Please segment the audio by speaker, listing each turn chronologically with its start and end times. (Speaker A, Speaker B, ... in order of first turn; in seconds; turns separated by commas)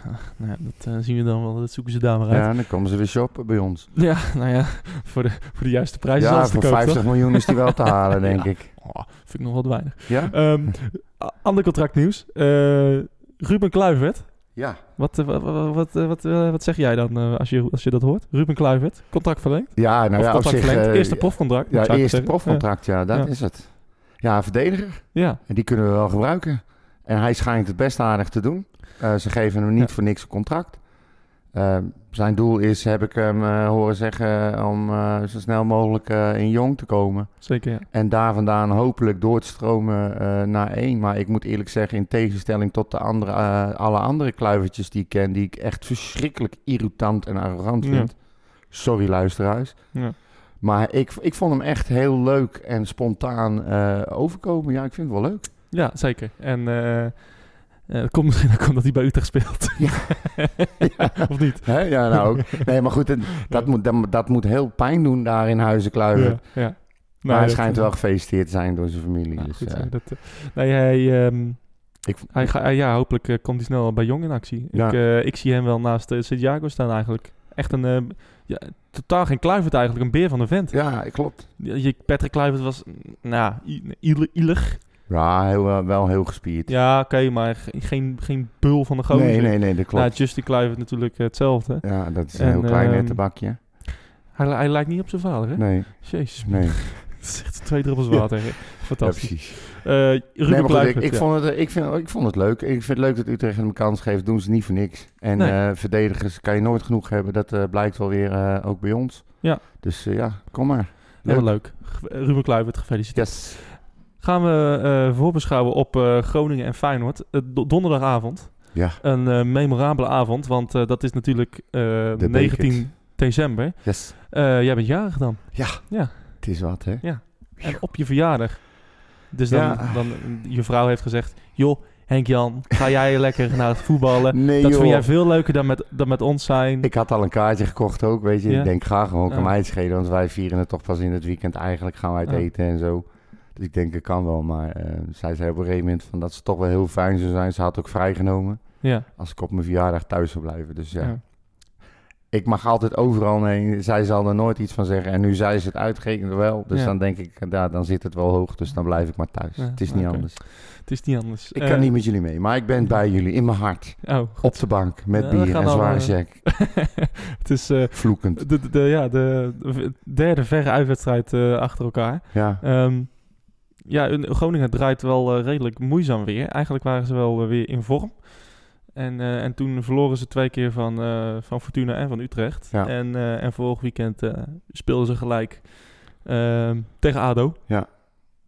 Speaker A: 0.3-2.5, Speaker B: 2.3-3.9, Speaker A: 4.0-7.7, Speaker B: 6.2-8.8, Speaker A: 8.2-23.3, Speaker B: 10.1-10.8, Speaker B: 14.6-14.8, Speaker B: 19.8-55.5, Speaker A: 25.1-25.4, Speaker A: 37.4-37.9, Speaker A: 47.8-48.1, Speaker A: 55.7-62.4, Speaker B: 59.8-69.9, Speaker A: 66.1-67.9, Speaker A: 69.4-84.8, Speaker B: 72.0-72.5, Speaker B: 74.7-75.0, Speaker B: 80.7-81.5, Speaker B: 85.1-86.7, Speaker A: 86.7-101.3, Speaker B: 89.1-90.2, Speaker B: 91.8-93.6, Speaker B: 95.6-96.9, Speaker B: 99.0-99.9, Speaker B: 100.5-111.5, Speaker A: 111.2-136.9, Speaker B: 113.1-113.6, Speaker B: 118.7-119.0, Speaker B: 122.2-124.1, Speaker B: 125.5-127.8, Speaker B: 129.5-130.0, Speaker B: 134.3-135.1, Speaker B: 136.8-160.5, Speaker A: 138.5-139.5, Speaker A: 148.8-149.1, Speaker A: 159.6-162.2, Speaker B: 161.5-166.5, Speaker A: 164.0-187.6, Speaker B: 167.9-168.5, Speaker B: 172.3-172.6